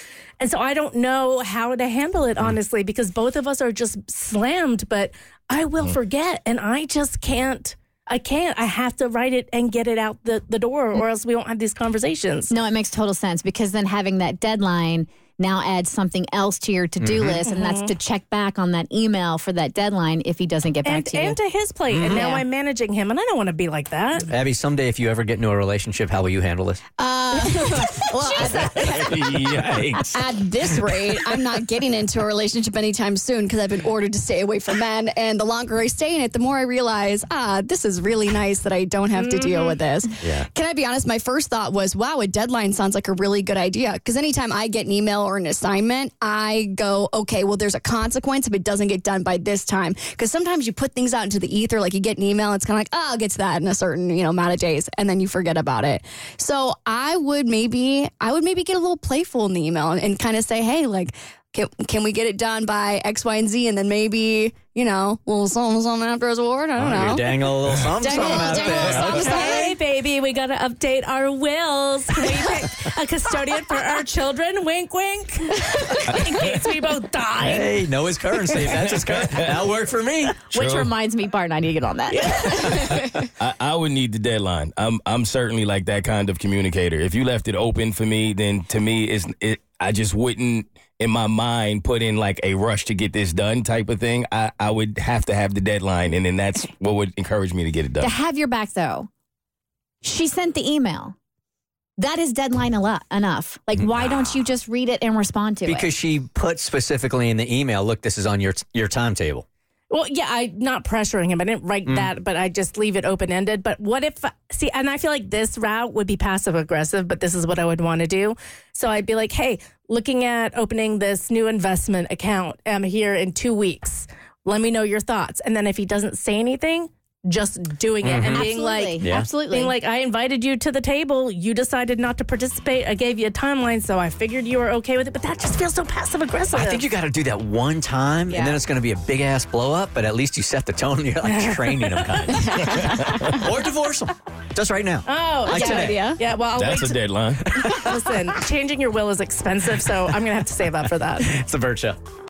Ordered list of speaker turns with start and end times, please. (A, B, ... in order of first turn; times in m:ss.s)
0:00.4-0:12.5 A
0:12.5-0:21.4 B
0:17.0-0:17.4 C
0:17.4-0:17.9 A
0:20.8-0:24.3 A
0:21.9-0:22.3 C
0:22.1-0:22.4 B
0:24.3-0:26.8 C
0:27.0-1:07.5 D
0:27.4-0:29.1 B
0:28.7-0:31.2 E
0:39.2-0:39.8 A
0:40.2-0:40.5 C
1:06.8-1:09.6 C
1:08.0-1:09.8 D
1:08.9-1:17.8 A
1:17.4-1:20.4 C
1:18.7-1:19.3 E
1:20.5-1:20.9 E
1:20.5-1:22.7 B
1:22.6-1:38.1 E
1:38.0-1:39.1 B
1:40.0-1:41.2 B
1:42.0-1:45.9 B
1:43.8-1:44.4 C
1:45.7-1:49.4 C
1:49.9-2:16.8 A
2:08.0-2:08.5 C
2:08.3-2:09.8 B
2:09.0-2:09.3 C
2:16.5-2:26.0 C
2:18.3-2:18.6 B
2:21.2-2:22.5 A
2:25.1-2:27.0 A
2:25.5-2:26.2 D
2:26.6-2:27.5 E
2:27.5-2:28.0 C
2:27.6-2:31.3 A
2:31.2-2:32.0 C